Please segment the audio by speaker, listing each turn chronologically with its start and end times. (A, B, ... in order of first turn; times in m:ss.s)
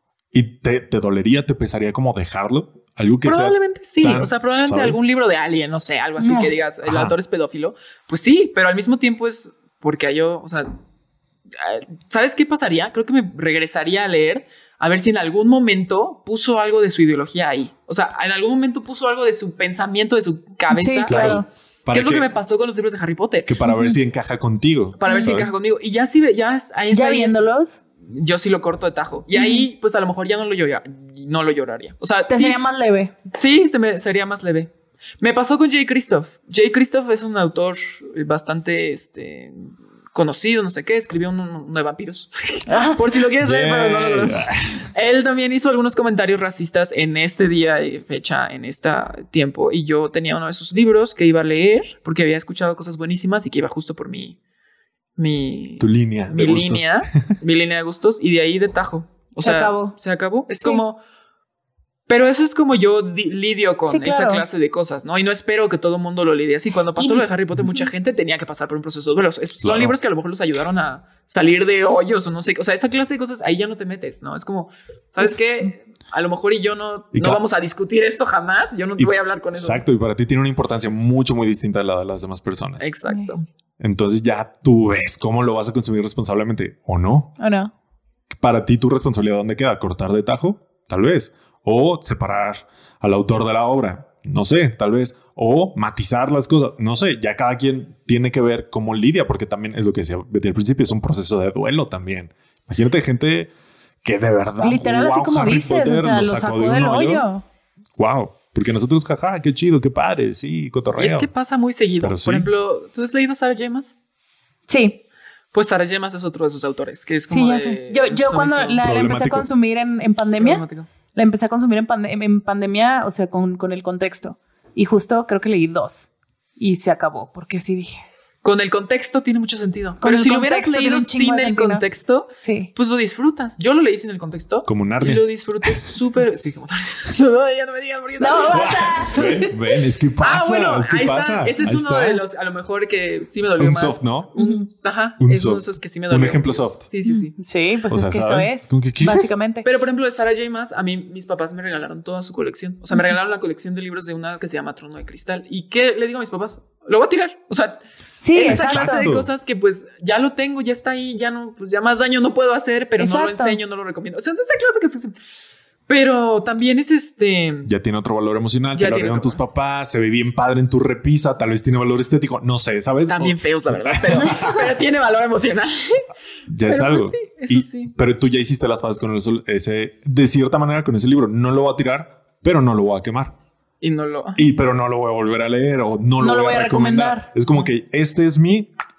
0:00.3-0:05.0 A
0:03.2-0:10.8 B
0:06.2-0:06.5 C
0:06.8-0:07.2 A
0:11.6-0:23.6 B
0:20.7-0:21.5 C
0:21.1-0:22.3 A
0:23.5-0:25.5 A
0:23.6-0:24.0 C
0:25.0-0:27.4 B
0:25.1-0:25.4 C
0:26.9-0:27.8 C
0:28.0-0:32.6 B
0:29.3-0:29.7 C
0:32.3-0:33.1 C
0:33.3-0:54.4 B
0:42.7-0:43.0 C
0:43.4-0:44.8 A
0:55.2-1:01.0 B
0:55.8-0:57.0 A
0:59.4-1:00.0 C
1:00.6-1:00.8 C
1:02.1-1:19.8 B
1:03.9-1:04.4 C
1:07.0-1:07.9 C
1:09.6-1:10.0 A
1:17.1-1:17.4 A
1:19.0-1:22.9 A
1:22.8-1:23.4 B
1:23.8-1:27.3 A
1:27.4-1:27.7 C
1:28.4-1:43.5 A
1:44.0-1:47.3 A
1:44.6-1:47.4 C
1:48.0-1:51.3 A
1:51.0-1:54.0 B
1:52.0-1:52.5 A
1:54.7-1:55.0 C
1:55.5-1:58.8 B
1:57.3-2:08.0 C
1:58.8-1:59.5 A
2:00.4-2:00.9 B
2:08.4-2:19.2 B
2:10.0-2:11.8 C
2:12.4-2:12.7 C
2:14.7-2:15.9 A
2:18.2-2:19.5 C
2:18.5-2:22.2 A
2:20.2-2:27.3 B
2:23.6-2:24.3 A
2:24.4-2:24.7 C
2:25.2-2:26.8 A
2:27.0-2:29.7 C
2:27.9-2:29.3 A
2:29.6-2:37.8 B
2:38.2-2:39.1 C
2:38.3-2:45.2 B
2:38.4-2:39.3 A
2:43.0-2:43.6 C
2:45.9-2:47.7 B
2:47.7-2:54.7 A
2:48.7-2:49.4 B
2:53.1-2:56.1 B
2:56.5-3:03.4 A
2:56.6-2:57.9 B
3:03.8-3:04.4 B
3:04.4-3:08.7 A
3:06.2-3:07.3 C
3:07.5-3:07.7 B